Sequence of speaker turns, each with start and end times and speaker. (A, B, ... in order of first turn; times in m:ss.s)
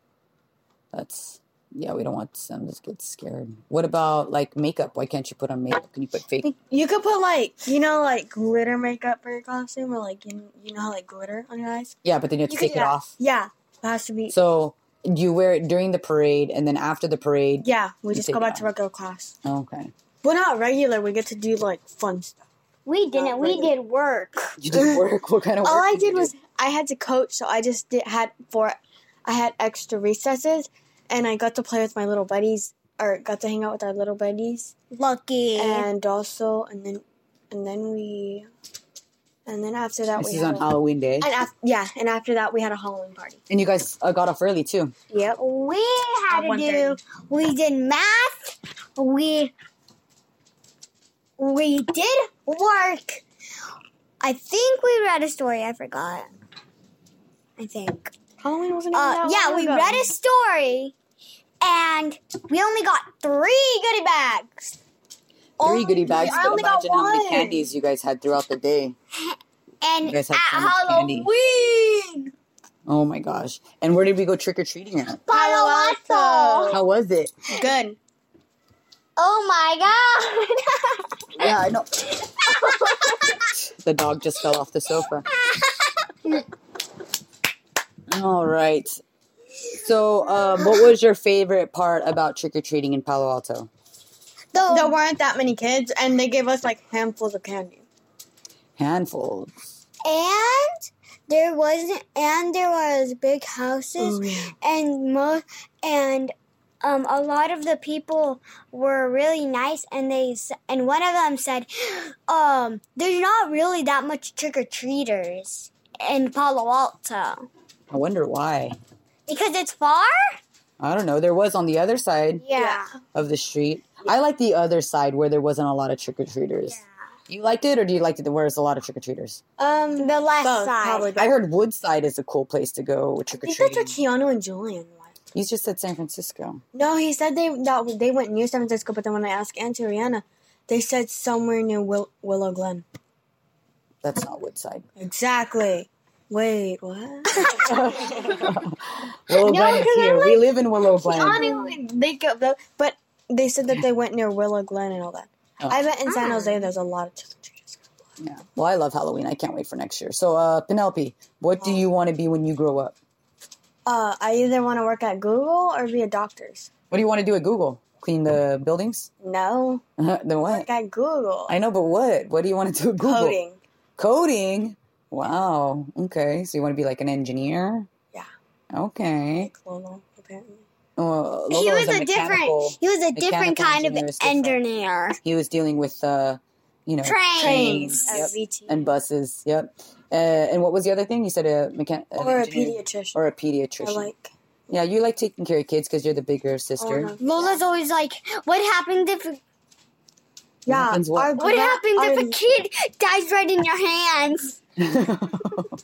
0:00.9-0:06.5 A
0:06.4-0:12.0 B
0:12.0-0:13.1 A
0:12.5-0:14.4 B
0:14.3-0:18.6 A
0:17.6-0:19.3 B
0:19.4-0:19.9 A
0:20.2-0:22.4 B
0:22.8-0:24.6 C
0:23.1-0:23.7 B
0:24.6-0:26.3 A
0:24.7-0:25.0 B
0:25.6-0:34.7 B
0:34.9-0:35.9 C
0:35.6-0:38.5 B
0:39.4-0:40.7 B
0:40.1-0:41.3 A
0:41.2-0:43.4 B
0:43.5-0:44.9 A
0:45.1-0:45.4 B
0:45.4-0:49.5 C
0:46.3-0:47.0 B
0:51.4-0:53.2 C
0:54.2-0:56.3 C
0:57.6-0:58.1 C
0:58.4-1:00.1 B
0:58.9-1:00.9 C
1:01.6-1:04.8 C
1:05.6-1:06.6 C
1:05.6-1:08.9 A
1:06.0-1:07.7 B
1:09.3-1:12.3 C
1:10.0-1:11.3 A
1:12.8-1:15.2 A
1:15.3-1:16.8 C
1:15.3-1:16.8 B
1:16.7-1:17.3 A
1:17.5-1:18.0 B
1:19.2-1:21.4 C
1:21.4-1:21.9 A
1:22.2-1:23.5 C
1:23.6-1:25.2 A
1:25.3-1:26.4 C
1:28.1-1:29.0 A
1:29.7-1:33.7 A
1:34.5-1:35.0 C
1:34.6-1:37.8 B
1:38.8-1:39.5 A
1:40.0-1:57.5 C
1:44.0-1:44.5 B
1:57.9-1:58.8 A
1:59.3-2:00.4 C
2:00.8-2:02.4 A
2:02.4-2:02.9 C
2:02.5-2:02.8 B
2:03.1-2:09.4 A
2:09.6-2:11.3 B
2:10.0-2:11.1 C
2:11.1-2:14.0 A
2:13.3-2:15.1 B
2:15.3-2:16.6 A
2:16.7-2:22.8 B
2:24.0-2:24.8 A
2:25.0-2:28.3 B
2:27.3-2:27.7 C
2:27.5-2:31.4 A
2:29.4-2:31.8 C
2:31.0-2:38.0 B
2:36.0-2:36.6 C
2:38.2-2:43.0 A
2:41.6-2:41.8 B
2:43.8-2:46.7 B
2:46.9-2:49.1 A
2:49.2-2:49.8 B
2:50.0-2:50.7 A
2:50.5-2:51.6 B
2:51.5-2:53.4 A
2:53.0-2:53.6 B
2:54.0-2:57.9 A
2:58.7-2:59.5 A
2:59.4-3:00.6 B
3:01.0-3:04.6 A
3:01.5-3:05.2 C
3:05.2-3:14.1 A
3:07.0-3:08.2 C
3:07.4-3:08.9 B
3:12.2-3:13.2 B
3:13.8-3:14.3 B
3:14.7-3:17.1 A
3:16.8-3:17.6 B
3:17.2-3:19.4 C
3:20.6-3:21.3 A
3:20.6-3:22.4 B
3:21.4-3:24.6 C
3:24.8-3:25.8 A